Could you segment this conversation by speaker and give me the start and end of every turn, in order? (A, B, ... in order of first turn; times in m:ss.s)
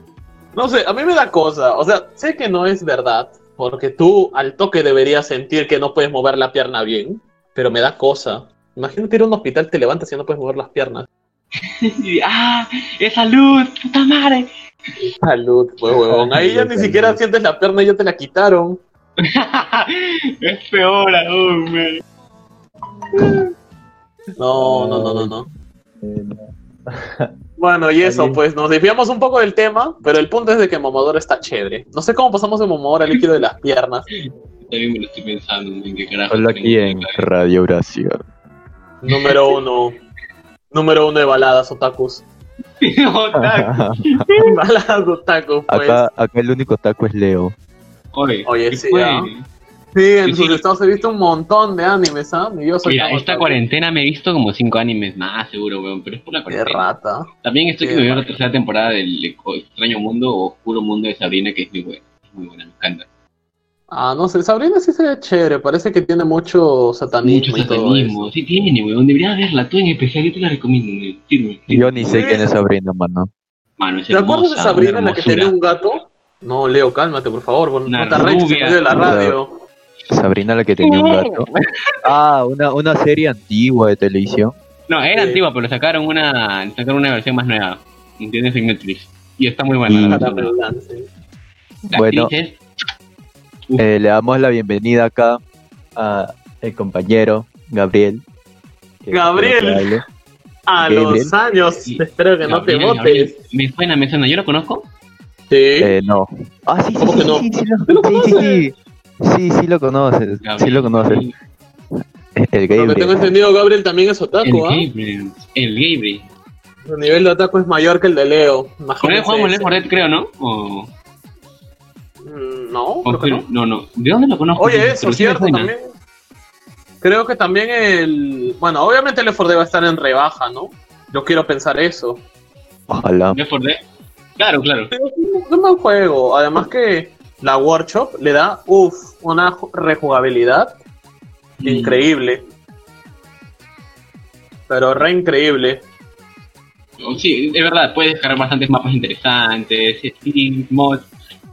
0:00.6-0:11.1 A
0:11.8-0:14.5 B
0:15.0-0:18.8 A
0:16.1-0:17.2 C
0:19.2-0:22.0 B
0:24.4-0:25.5 A
0:24.6-0:25.4 C
0:26.0-0:27.3 C
0:27.6-0:34.1 A
0:28.0-0:28.4 C
0:34.6-0:37.3 B
0:36.3-0:38.2 C
0:39.0-0:40.0 A
0:39.1-0:39.4 B
0:40.7-0:42.3 A
0:42.8-0:44.4 B
0:43.4-0:44.3 C
0:44.4-0:46.0 A
0:45.7-0:47.5 C
0:48.1-0:49.5 B
0:48.5-0:49.3 A
0:50.0-0:53.6 A
0:50.3-0:50.6 B
0:52.8-0:56.9 B
0:56.5-0:57.3 A
0:57.4-1:03.1 B
0:57.8-0:58.3 A
1:03.9-1:08.2 A
1:07.2-1:12.4 B
1:11.7-1:13.3 C
1:12.1-1:12.5 A
1:13.8-1:15.5 B
1:14.1-1:19.5 A
1:17.9-1:18.8 B
1:18.9-1:19.4 C
1:20.1-1:21.5 C
1:20.8-1:21.6 B
1:22.0-1:24.6 C
1:24.9-1:30.5 B
1:25.1-1:25.4 A
1:29.9-1:30.2 C
1:30.1-1:31.1 A
1:31.9-1:32.6 B
1:32.0-1:32.3 C
1:33.8-1:35.4 C
1:36.0-1:38.2 C
1:39.0-1:40.0 C
1:39.1-1:40.0 A
1:40.7-1:43.4 A
1:40.8-1:41.3 C
1:41.8-1:44.9 B
1:45.5-1:45.9 A
1:45.8-1:51.2 C
1:47.0-1:48.7 A
1:50.4-1:51.4 B
1:52.4-1:53.3 C
1:52.7-1:54.9 A
1:54.4-1:56.3 B
1:56.8-2:00.0 A
1:59.0-2:00.9 B
2:02.2-2:03.5 A
2:03.0-2:05.7 B
2:04.6-2:05.8 A
2:07.0-2:12.2 A
2:12.9-2:13.4 C
2:13.3-2:13.8 B
2:14.4-2:14.9 B
2:14.9-2:20.8 A
2:21.6-2:22.0 B
2:21.6-2:22.4 A
2:24.7-2:25.8 A
2:27.0-2:31.1 B